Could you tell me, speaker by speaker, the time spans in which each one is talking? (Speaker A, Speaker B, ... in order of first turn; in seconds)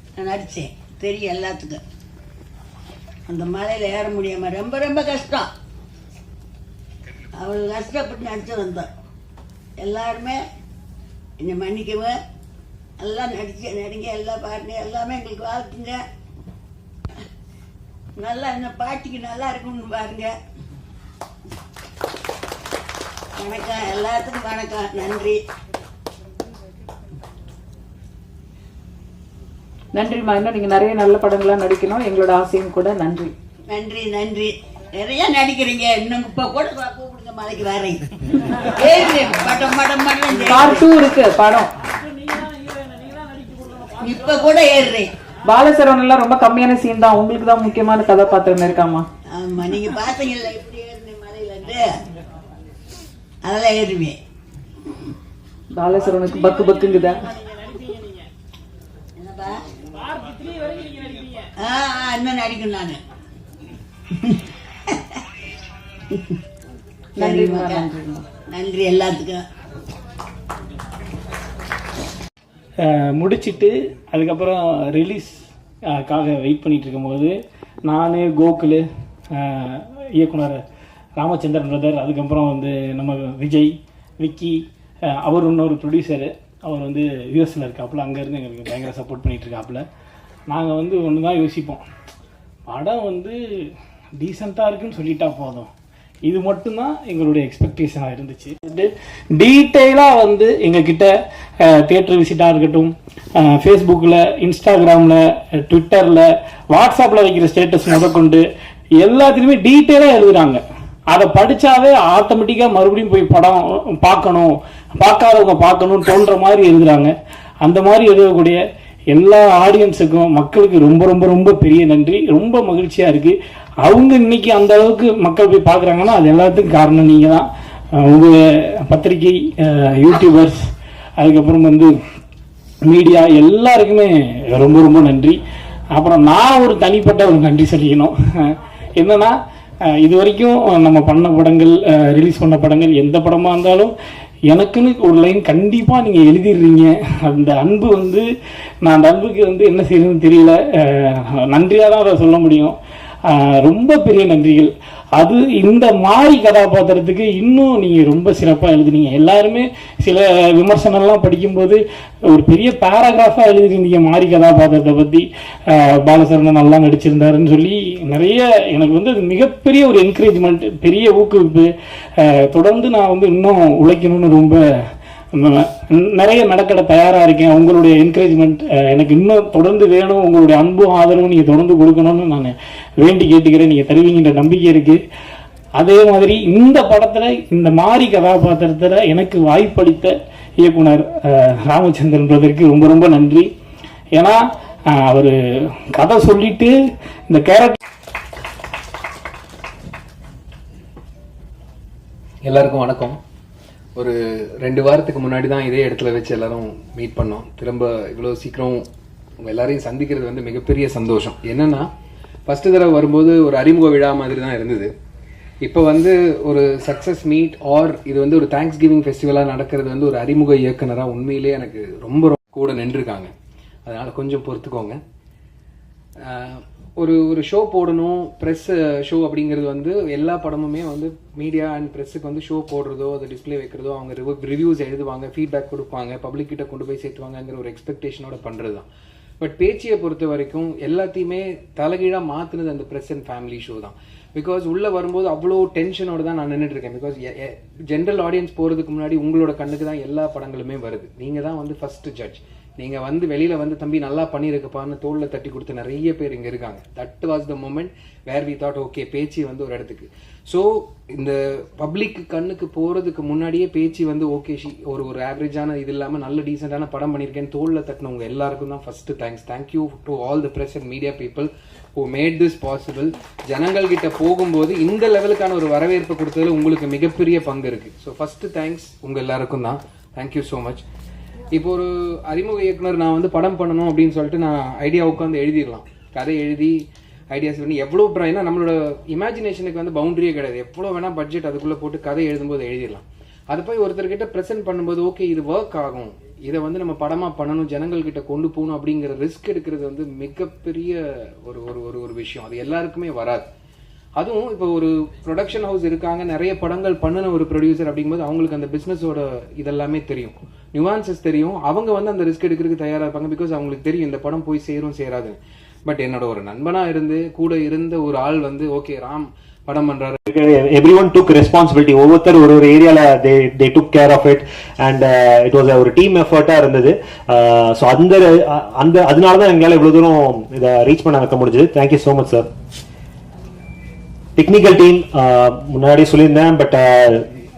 Speaker A: 0.1-1.8, 3.3-5.5, 7.3-8.9, 9.8-10.4, 11.4-12.2, 13.0-16.0, 18.2-20.3, 23.4-25.4, 33.7-40.8, 43.9-45.1, 49.3-51.9, 53.4-54.2, 59.1-59.6, 61.6-63.0, 64.2-65.0, 66.1-66.4, 67.2-67.8, 68.5-69.4
Speaker B: 29.9-33.3, 40.5-41.7, 45.5-49.1, 55.7-57.3, 67.2-68.2
Speaker C: 72.8-77.3, 77.8-80.6, 81.2-84.6, 85.2-89.8, 90.5-91.8, 92.7-93.4, 94.2-95.7, 96.2-101.1, 101.6-108.4, 109.0-117.1, 117.6-130.6, 131.2-131.9, 132.8-135.4, 135.9-139.3, 139.9-143.9, 144.5-148.2, 148.8-152.8, 153.3-171.7, 172.2-174.6, 175.4-185.0, 185.8-193.5, 194.1-194.4, 195.0-196.7, 197.3-197.8
Speaker D: 202.4-203.2, 203.9-208.8, 209.4-211.8, 212.5-214.9, 215.6-223.3, 223.8-225.0, 226.2-238.8, 239.4-280.8, 281.5-286.8, 287.3-303.4, 304.1-320.2
Speaker E: 320.3-332.5, 334.4-337.2